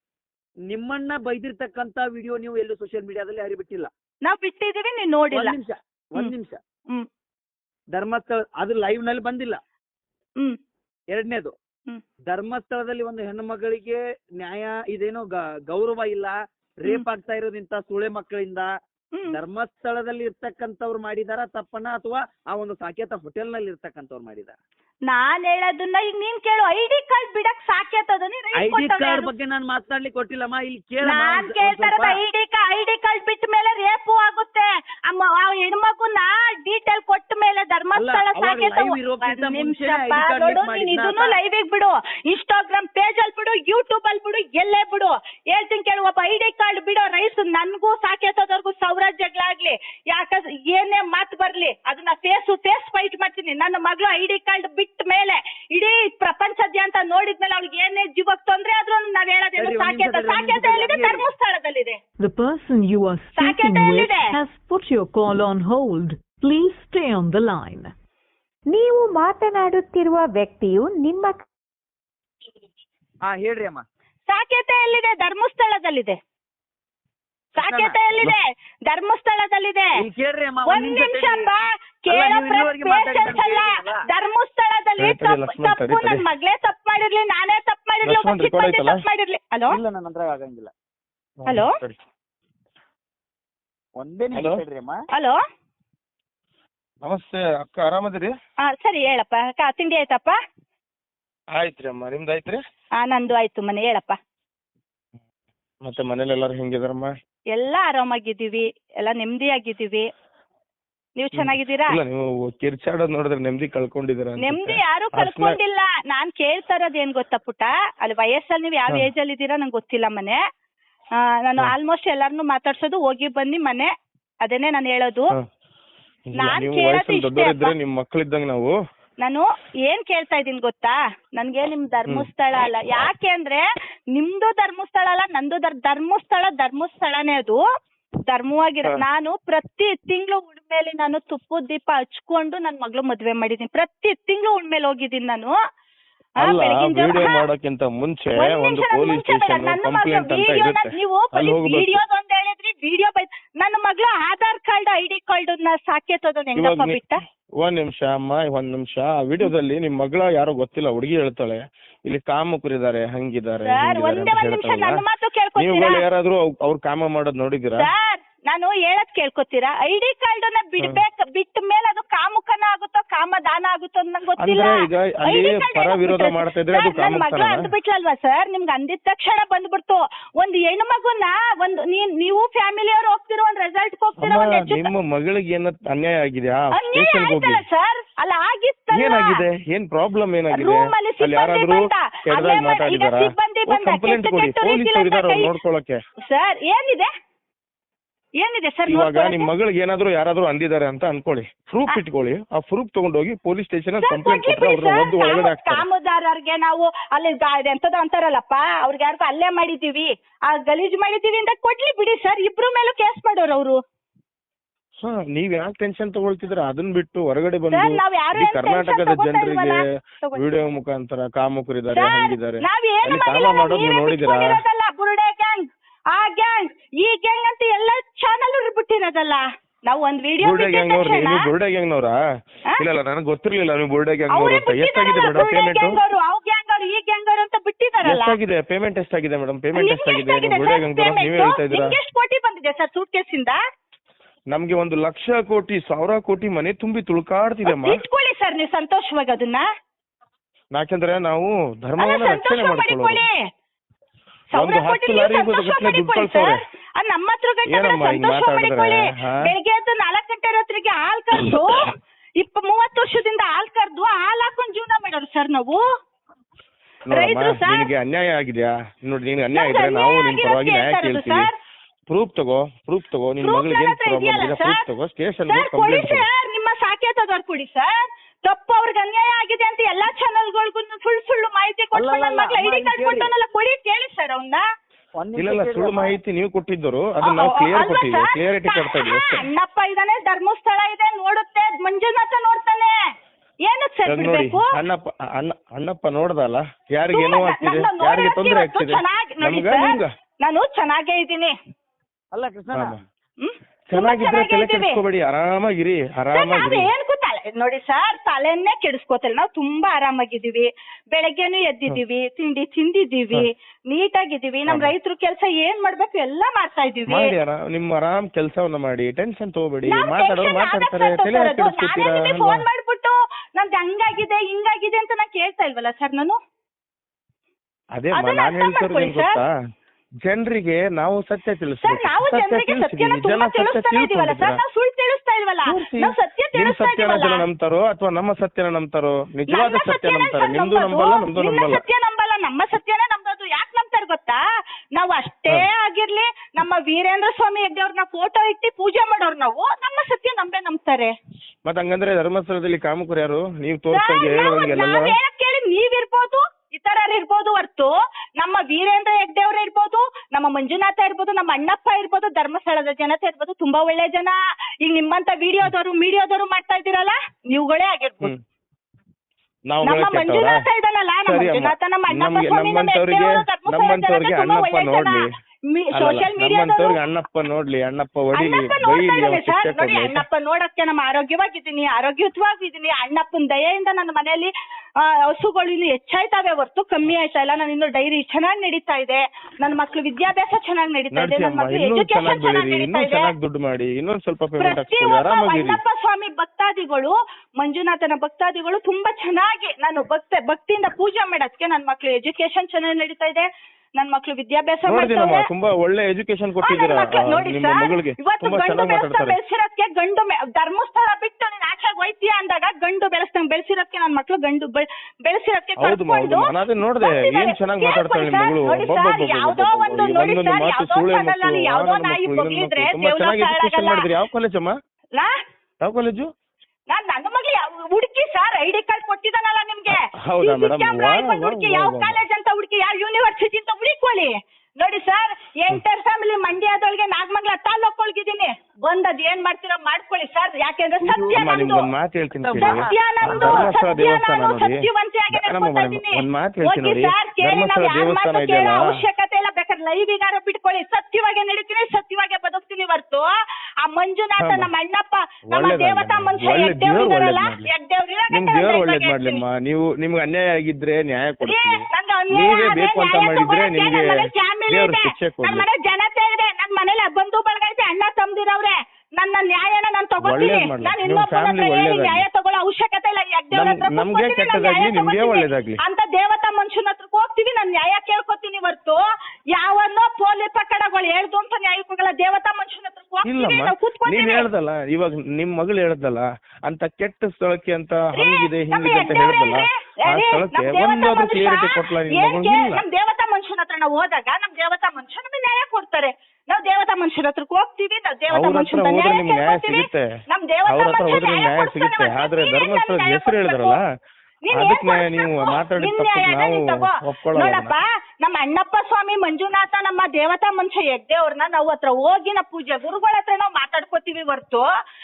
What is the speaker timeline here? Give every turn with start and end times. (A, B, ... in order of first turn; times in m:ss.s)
0:00.7-0:03.9 A
0:04.2-0:05.6 B
0:05.3-0:06.6 A
0:07.9-0:09.6 A
0:11.1-0:11.5 A
0:12.3-0:18.7 A
0:19.3-0:24.6 A
0:25.1-0:29.3 B
0:28.6-0:32.2 A
0:31.0-1:02.0 B
0:38.0-0:41.4 A
0:59.6-1:01.2 A
1:02.2-1:07.9 C
1:03.4-1:04.3 B
1:08.7-1:11.5 D
1:13.3-1:13.8 A
1:14.3-1:16.2 B
1:17.6-1:19.9 B
1:17.6-1:18.0 A
1:20.0-1:21.5 A
1:20.7-1:29.7 B
1:22.1-1:24.0 A
1:25.0-1:26.3 E
1:28.0-1:29.0 E
1:29.7-1:30.7 A
1:31.4-1:32.0 E
1:34.0-1:35.0 A
1:34.3-1:34.6 E
1:35.1-1:35.4 B
1:37.0-1:38.3 E
1:38.6-1:40.4 B
1:41.6-1:42.6 E
1:43.0-1:44.2 B
1:45.8-1:47.1 E
1:47.5-1:50.1 B
1:51.2-1:52.0 B
1:51.4-1:55.6 E
1:54.4-2:00.4 B
2:01.4-2:03.9 B
2:04.4-2:05.3 B
2:06.3-2:08.7 E
2:06.4-2:07.7 B
2:09.2-2:17.6 B
2:18.3-2:25.5 B
2:26.4-2:31.9 E
2:26.4-2:27.4 B
2:28.4-2:37.2 B
2:36.6-2:37.0 E
2:37.6-2:45.0 E
2:43.7-2:46.0 B
2:45.6-2:47.9 E
2:47.8-3:04.9 B
2:54.4-2:57.7 E
3:04.2-3:07.6 E
3:06.8-3:09.4 B
3:08.9-3:16.0 E
3:10.5-3:15.5 B
3:16.2-3:17.1 B
3:18.4-3:19.5 B
3:18.9-3:25.8 E
3:24.0-3:33.8 B
3:35.0-3:39.8 E
3:37.7-3:40.4 B
3:40.4-3:44.5 E
3:42.0-3:51.5 B
3:50.4-3:52.2 E
3:52.8-3:56.0 E
3:54.3-3:58.4 B
3:58.0-4:02.0 E
3:59.8-4:03.6 B
4:04.5-4:08.0 E
4:07.7-4:09.6 B
4:10.8-4:13.2 E
4:12.0-4:13.4 B
4:14.5-4:16.6 E
4:14.5-4:25.8 B
4:17.7-4:19.4 E
4:27.1-4:31.5 E
4:27.1-4:27.9 B
4:29.6-4:31.5 B
4:32.1-4:36.3 E
4:33.4-4:34.8 B
4:35.5-4:37.9 B
4:38.4-4:44.6 B
4:41.9-4:43.3 A
4:45.2-4:46.2 A
4:45.4-4:49.4 E
4:47.2-4:53.0 B
4:53.6-4:54.8 B
4:54.1-5:00.1 E
4:57.1-5:01.6 B
5:02.3-5:03.0 A
5:03.4-5:05.0 B
5:03.9-5:06.9 E
5:06.4-5:17.3 B
5:14.7-5:14.9 E
5:17.1-5:22.7 E
5:19.9-5:26.4 B
5:28.0-5:29.5 E
5:28.1-5:29.3 B
5:30.2-5:34.6 E
5:31.8-5:37.4 B
5:35.7-5:41.8 E
5:39.5-5:44.4 B
5:45.0-5:51.1 B
5:51.7-5:55.2 E
5:53.9-6:08.3 B
6:09.7-6:10.6 E
6:09.8-6:17.0 B
6:11.2-6:15.3 E
6:15.9-6:20.2 E
6:18.3-6:33.3 B
6:31.1-6:35.8 E
6:34.6-6:45.4 B
6:44.9-6:49.4 E
6:46.6-7:04.1 B
6:55.8-7:04.7 E
7:05.8-7:06.3 E
7:06.9-7:21.9 B
7:09.9-7:12.2 E
7:21.0-7:21.4 A
7:21.3-7:28.8 E
7:22.3-7:23.7 A
7:22.6-7:33.3 B
7:33.8-7:39.4 B
7:34.4-7:34.7 E
7:35.5-7:37.7 E
7:38.3-7:45.7 E
7:41.4-7:59.0 B
7:50.2-7:52.2 E
7:53.5-7:55.8 E
7:59.5-8:04.5 B
8:03.2-8:12.8 E
8:08.1-8:23.8 B
8:18.3-8:20.1 E
8:20.7-8:23.8 E
8:24.4-8:34.7 B
8:24.5-8:27.8 E